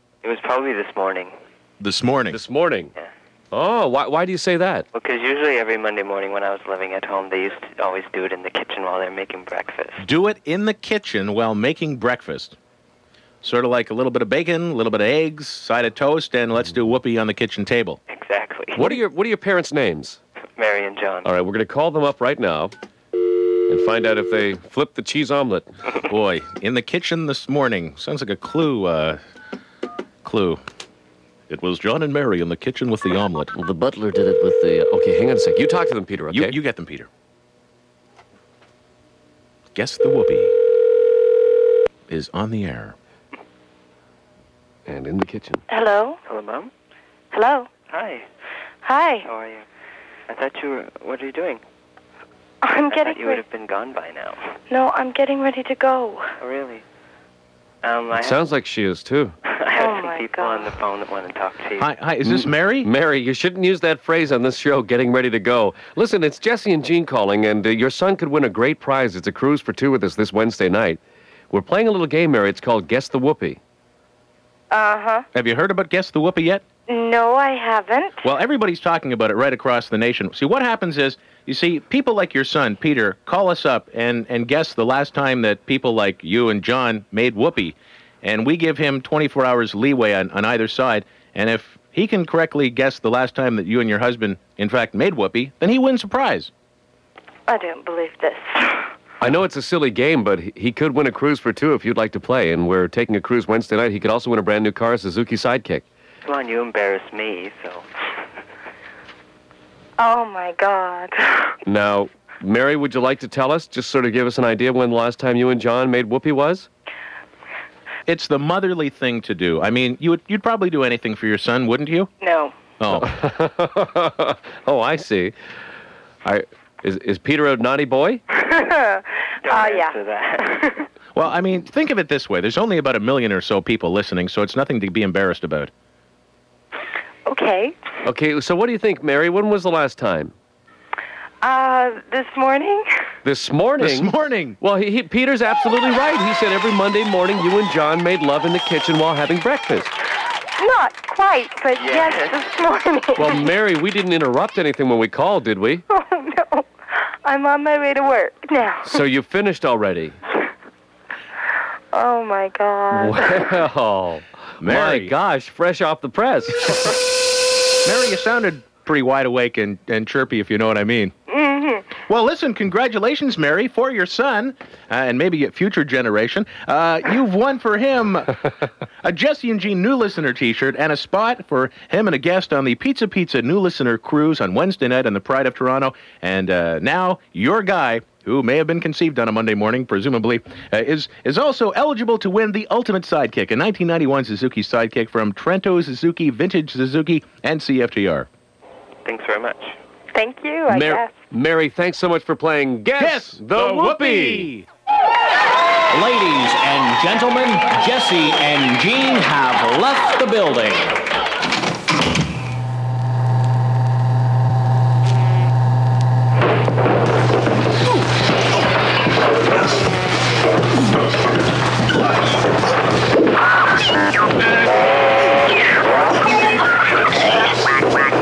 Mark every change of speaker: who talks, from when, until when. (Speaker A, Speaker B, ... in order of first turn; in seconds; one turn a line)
Speaker A: 0.2-1.3
Speaker B: 1.8-2.4
Speaker C: 2.3-2.9
Speaker C: 3.5-4.8
Speaker A: 4.9-10.0
Speaker B: 10.0-12.6
Speaker B: 13.4-18.0
Speaker A: 18.1-18.9
Speaker C: 18.7-20.2
Speaker A: 20.6-21.3
Speaker C: 21.2-22.7
Speaker C: 23.7-25.7
Speaker B: 26.0-29.2
Speaker B: 30.2-30.6
Speaker B: 31.5-33.5
Speaker C: 33.5-36.5
Speaker B: 36.3-37.1
Speaker B: 39.7-40.5
Speaker B: 42.1-43.0
Speaker C: 44.9-45.6
Speaker D: 45.7-46.2
Speaker A: 46.2-46.7
Speaker D: 47.3-47.7
Speaker A: 47.9-48.2
Speaker D: 48.8-49.3
Speaker A: 49.2-49.6
Speaker A: 50.3-51.6
Speaker D: 52.6-53.4
Speaker A: 52.9-54.5
Speaker D: 54.7-56.3
Speaker A: 56.4-56.8
Speaker A: 57.8-58.4
Speaker C: 58.1-59.3
Speaker A: 59.5-61.9
Speaker D: 59.8-60.7
Speaker B: 61.8-62.9
Speaker C: 62.2-73.6
Speaker D: 74.7-75.2
Speaker B: 75.3-76.6
Speaker D: 76.9-78.2
Speaker B: 78.2-96.5
Speaker D: 97.5-98.9
Speaker C: 99.2-105.8
Speaker A: 106.2-107.8
Speaker D: 110.0-111.5
Speaker C: 111.6-116.7
Speaker B: 118.1-122.1
Speaker D: 122.2-122.5
Speaker B: 122.8-123.1
Speaker C: 123.0-125.3
Speaker C: 126.2-128.2
Speaker D: 128.4-130.0
Speaker A: 129.4-130.8
Speaker B: 131.1-135.7
Speaker D: 137.2-137.7
Speaker C: 138.0-140.3
Speaker D: 141.4-142.8
Speaker C: 143.2-149.9
Speaker B: 143.8-144.6
Speaker D: 150.6-153.5
Speaker A: 151.8-152.3
Speaker C: 153.2-155.8
Speaker D: 155.9-159.0
Speaker C: 158.8-160.2
Speaker D: 161.9-163.5
Speaker C: 162.9-166.9
Speaker B: 164.6-165.1
Speaker B: 167.8-171.1
Speaker D: 171.3-171.9
Speaker B: 172.1-178.4
Speaker B: 179.0-198.3
Speaker A: 199.0-199.7
Speaker D: 200.1-201.1
Speaker C: 200.7-204.5
Speaker B: 203.0-204.7
Speaker E: 205.9-211.0